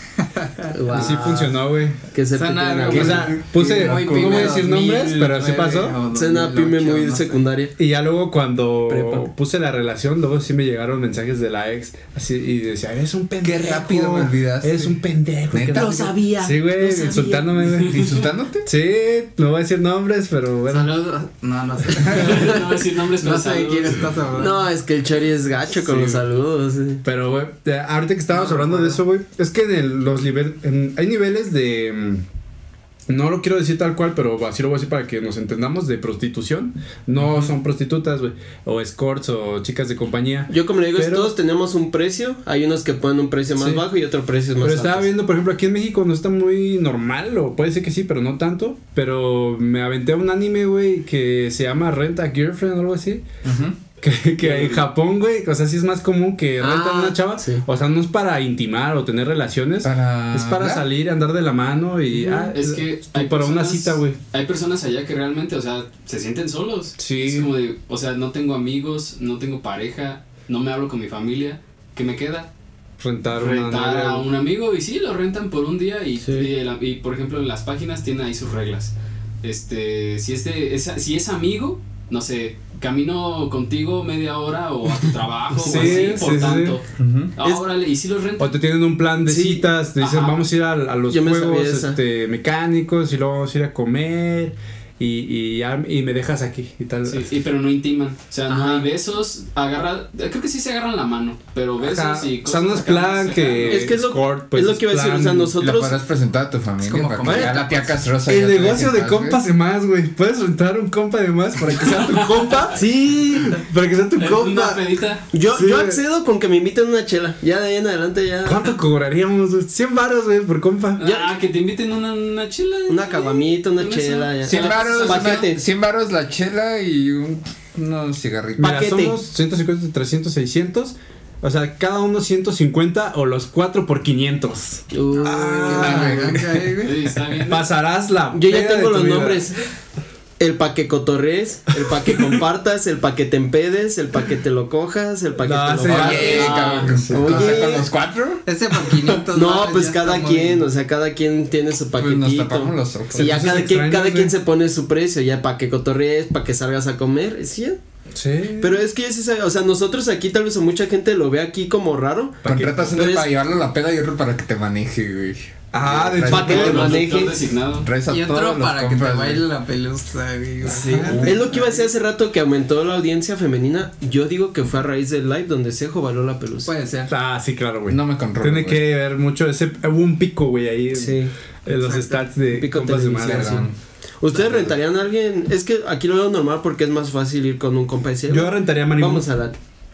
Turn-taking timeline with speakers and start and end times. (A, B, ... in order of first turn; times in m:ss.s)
0:00.4-0:01.1 A
0:00.7-0:01.6 B
0:00.9-0:02.0 C
0:02.1-0:03.3 B
0:02.3-0:07.4 A
0:02.9-0:06.0 C
0:03.0-0:04.7 D
0:06.1-0:07.7 B
0:07.8-0:18.1 C
0:08.9-0:09.3 B
0:13.4-0:16.2 D
0:15.7-0:17.6 B
0:17.7-0:18.7 D
0:18.6-0:20.9 C
0:20.6-0:24.6 A
0:22.0-0:24.1 E
0:24.3-0:27.0 B
0:25.8-0:26.2 C
0:27.0-0:32.2 C
0:28.3-0:29.0 A
0:33.1-0:41.3 C
0:37.2-0:37.5 D
0:40.5-0:45.1 B
0:43.6-0:43.8 C
0:44.6-0:53.2 C
0:53.4-0:53.8 D
0:54.0-1:04.2 C
0:54.4-0:54.9 E
0:56.6-0:57.6 B
0:59.8-1:00.9 D
1:02.1-1:02.5 B
1:02.5-1:12.5 E
1:07.0-1:07.5 C
1:13.0-1:14.2 C
1:13.3-1:26.8 E
1:16.2-1:16.5 B
1:25.6-1:26.8 C
1:25.7-1:26.0 B
1:27.0-1:27.3 D
1:27.4-1:28.6 E
1:28.4-1:37.3 C
1:29.2-1:29.7 B
1:30.0-1:30.4 E
1:31.1-1:32.0 B
1:37.0-1:43.9 E
1:38.5-1:38.9 B
1:41.9-1:45.5 C
1:43.6-1:46.0 B
1:45.6-1:49.4 D
1:46.8-1:47.9 A
1:48.2-1:54.9 C
1:51.9-1:52.6 E
1:52.7-1:53.6 B
1:54.2-1:55.2 E
1:55.3-1:58.7 B
1:55.5-1:56.0 C
1:58.4-2:01.0 C
2:01.0-2:05.5 E
2:01.0-2:01.3 B
2:02.9-2:05.6 B
2:04.4-2:09.0 D
2:08.6-2:16.5 C
2:08.6-2:09.2 B
2:14.9-2:16.1 B
2:15.6-2:17.0 A
2:15.7-2:16.7 D
2:16.8-2:17.7 E
2:17.4-2:19.5 C
2:18.3-2:19.6 B
2:20.4-2:27.9 B
2:25.4-2:27.6 C
2:25.8-2:28.4 D
2:26.4-2:26.7 A
2:28.4-2:30.6 A
2:29.3-2:37.8 B
2:32.0-2:33.6 D
2:33.1-2:34.3 C
2:38.1-2:38.8 C
2:38.6-2:43.3 B
2:42.4-2:42.9 C
2:42.4-2:47.0 D
2:45.7-2:47.0 C
2:46.2-2:47.4 B
2:46.3-2:47.9 E
2:47.8-2:49.4 D
2:48.1-2:51.8 A
2:50.7-2:51.3 C
2:50.7-2:56.7 B
2:50.9-2:51.4 D
2:56.6-2:57.1 A
2:57.1-3:03.7 C
2:57.9-2:58.9 D
3:00.9-3:01.3 B
3:01.7-3:02.3 A
3:02.5-3:03.7 B
3:03.2-3:03.8 D
3:04.2-3:09.6 B
3:04.3-3:04.7 D
3:08.3-3:09.3 C